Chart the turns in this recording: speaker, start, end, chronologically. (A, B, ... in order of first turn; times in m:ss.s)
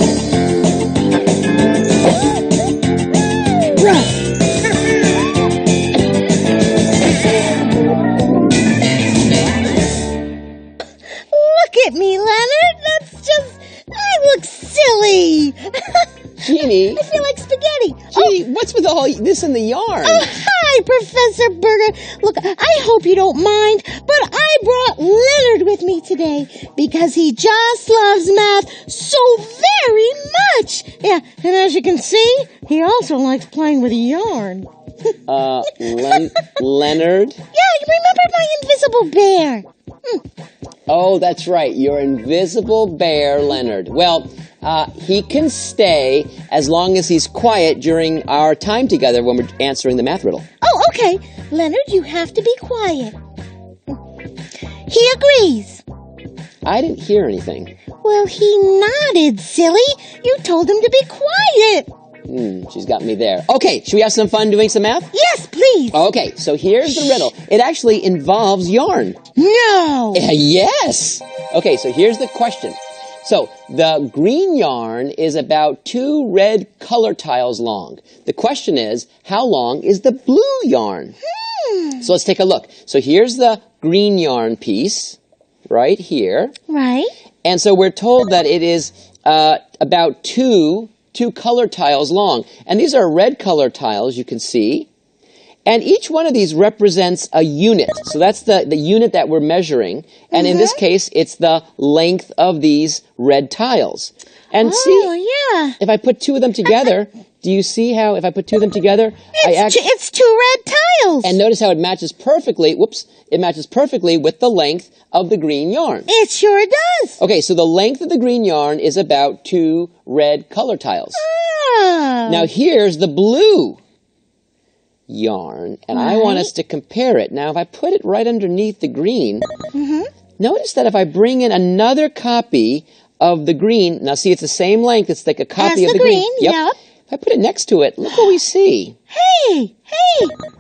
0:03.7-0:04.3 A
0:11.3-0:18.3 A
0:16.4-0:17.0 B
0:18.1-0:20.3 B
0:20.0-0:34.7 A
0:35.3-0:37.4 B
0:35.9-0:36.3 A
0:37.5-0:40.2 A
0:40.9-0:50.4 B
0:50.6-0:53.1 A
0:54.9-0:55.8 A
0:56.6-0:57.7 B
0:58.0-1:01.9 A
1:02.3-1:05.1 B
1:05.1-1:06.0 A
1:05.9-1:09.2 B
1:09.4-1:10.2 A
1:10.1-1:21.2 B
1:21.4-1:22.0 A
1:22.0-1:26.5 B
1:26.7-1:27.1 A
1:27.4-1:34.9 B
1:35.7-1:45.1 B
1:40.3-1:40.8 A
1:44.6-1:45.8 A
1:45.8-1:49.8 B
1:49.4-1:51.4 A
1:51.2-1:56.1 B
1:56.1-1:57.2 A
1:57.2-2:01.2 B
2:01.2-2:02.5 A
2:02.3-2:03.8 B
2:05.1-2:09.5 B
2:05.9-2:06.5 A
2:09.7-2:10.1 A
2:10.4-2:19.0 B
2:15.6-2:16.7 A
2:19.1-2:20.4 A